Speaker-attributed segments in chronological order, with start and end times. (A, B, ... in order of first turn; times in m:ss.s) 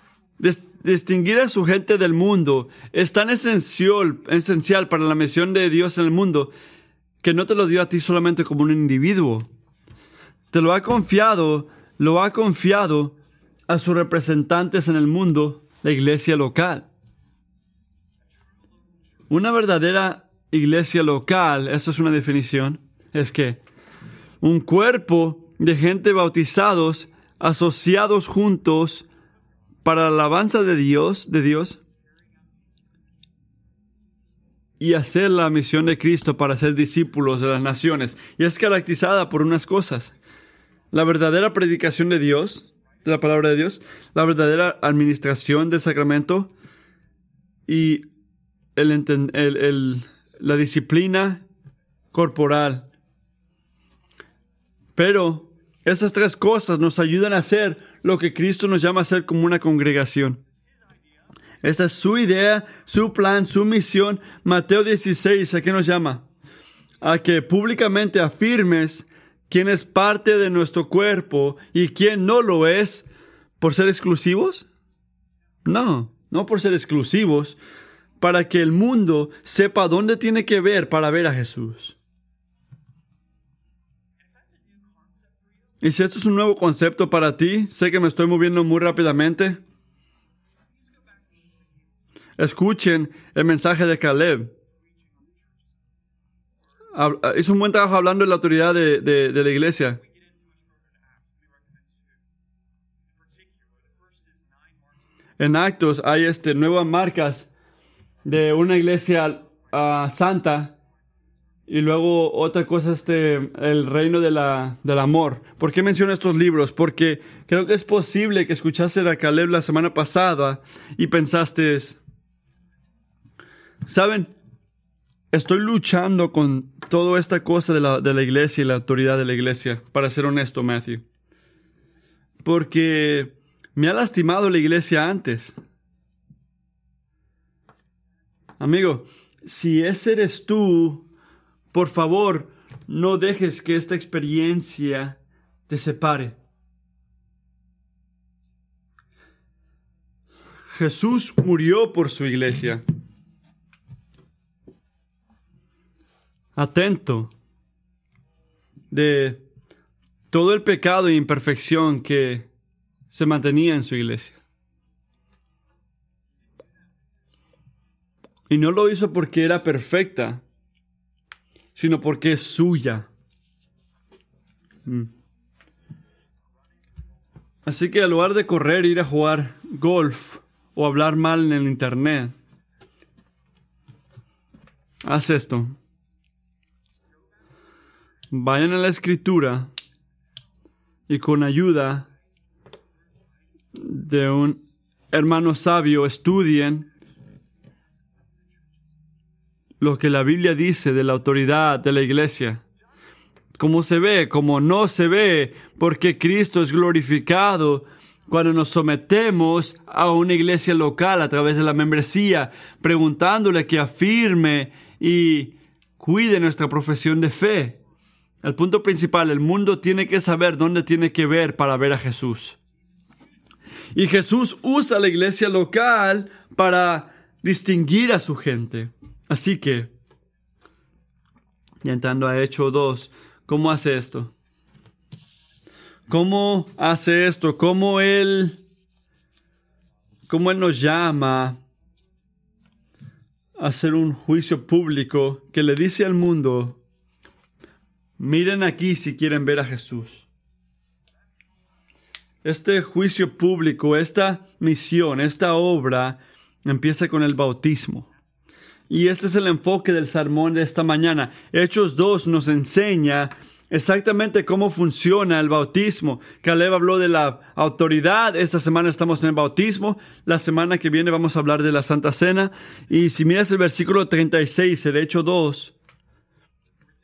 0:00.4-0:06.5 A
0:07.2-0:09.5 A
0:10.5-0:16.9 A
0:19.3-0:23.6 A
0:24.4-0:29.1 A
0:29.8-0:31.8 A
0:34.8-0:40.1 A
0:40.9-0:46.5 A
0:47.7-0:48.0 A
0:48.8-0:51.4 A
0:52.1-0:52.9 A
0:55.0-1:00.4 A
1:01.6-1:06.2 A
1:07.0-1:13.1 A
1:13.6-1:14.7 A
1:15.6-1:17.6 A
1:18.2-1:22.0 A
1:25.8-1:29.6 A
1:32.4-1:34.5 A
1:36.9-1:40.0 A
1:45.4-1:47.5 A
1:48.2-1:50.8 A
1:51.7-2:02.0 A
2:03.8-2:04.3 A
2:05.3-2:11.0 A
2:12.4-2:15.6 A
2:18.6-2:21.1 A
2:21.7-2:26.4 A
2:30.7-2:32.8 A
2:36.6-2:37.3 A
2:38.9-2:39.4 A
2:40.3-2:42.5 A
2:43.1-2:44.4 A
2:48.5-2:50.4 A
2:51.7-2:53.1 A
2:57.6-3:02.3 A
3:05.0-3:05.8 A
3:08.3-3:09.7 A
3:11.1-3:12.1 A
3:13.7-3:14.6 A
3:15.1-3:16.9 A
3:19.8-3:22.6 A
3:23.6-3:37.8 A
3:38.4-3:42.6 A
3:43.9-3:49.9 A
3:51.8-3:54.3 A
3:56.1-3:58.6 A
4:00.3-4:01.6 A
4:03.6-4:06.8 A
4:08.2-4:10.3 A
4:12.4-4:18.1 A
4:18.9-4:35.7 A